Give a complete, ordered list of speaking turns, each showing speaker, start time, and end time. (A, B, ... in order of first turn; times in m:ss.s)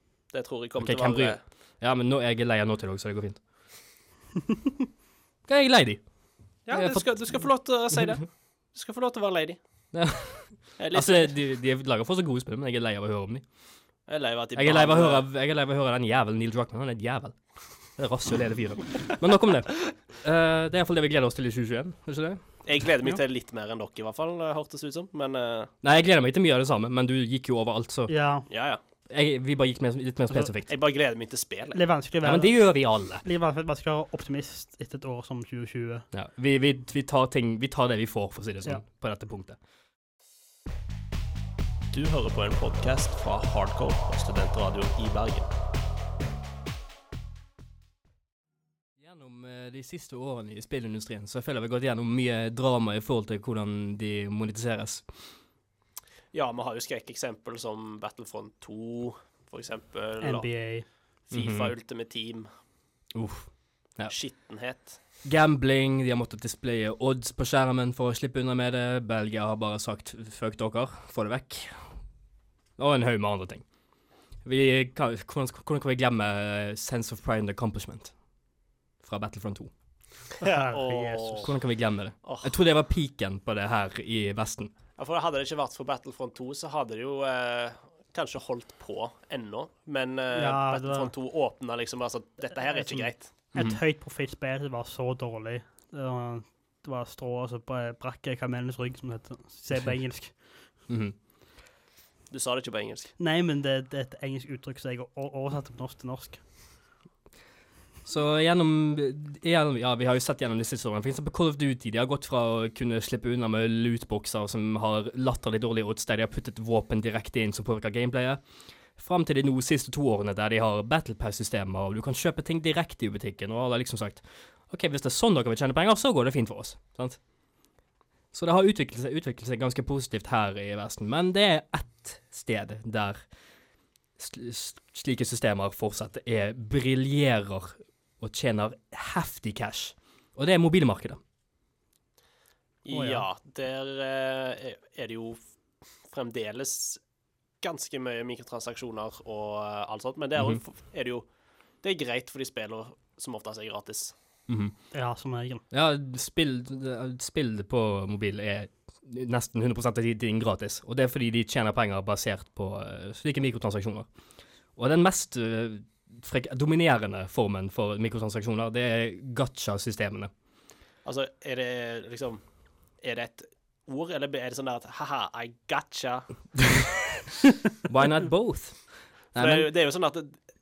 0:00.3-0:01.4 A
0:00.8-0:03.4 B
0:05.5-0:06.0 B
0:06.7-0:09.6 A
0:06.7-0:07.1 B
0:09.9-0:13.4 B
0:10.8-0:11.4 A
0:14.1-0:15.2 A
0:14.5-0:17.4 B
0:18.0-0:22.4 B
0:22.6-0:25.7 A
0:25.8-0:28.1 B
0:28.1-0:28.5 C
0:28.5-0:28.8 A
0:29.1-0:30.7 B
0:30.6-0:31.8 A
0:31.7-0:32.5 C
0:32.2-0:33.2 B
0:33.2-0:36.0 C
0:36.1-0:39.6 B
0:41.9-0:45.5 A
0:49.0-0:55.0 B
0:56.3-1:00.5 A
1:00.2-1:00.8 C
1:01.3-1:02.5 A
1:01.3-1:01.7 B
1:03.1-1:04.1 B
1:04.1-1:05.0 A
1:05.2-1:11.9 B
1:12.8-1:13.6 B
1:14.4-1:18.1 B
1:19.0-1:19.7 B
1:20.4-1:21.5 C
1:20.4-1:21.5 A
1:21.4-1:24.7 B
1:22.2-1:22.5 A
1:25.0-1:33.3 A
1:30.3-1:31.1 C
1:32.5-1:40.4 C
1:40.9-1:41.2 B
1:42.3-1:43.1 A
1:43.2-1:46.4 C
1:48.0-1:58.4 B
1:59.0-2:07.2 B
2:08.3-2:13.2 B
2:14.2-2:21.2 B
2:22.8-2:25.4 A
2:22.9-2:23.2 C
2:26.1-2:27.0 A
2:27.6-2:31.2 A
2:31.8-2:34.1 A
2:34.5-2:34.7 B
2:34.9-2:35.6 C
2:35.7-2:44.1 B
2:44.8-2:50.3 B
2:51.0-2:52.4 A
2:53.0-2:56.4 A
2:57.8-2:59.7 B
2:59.4-3:00.4 A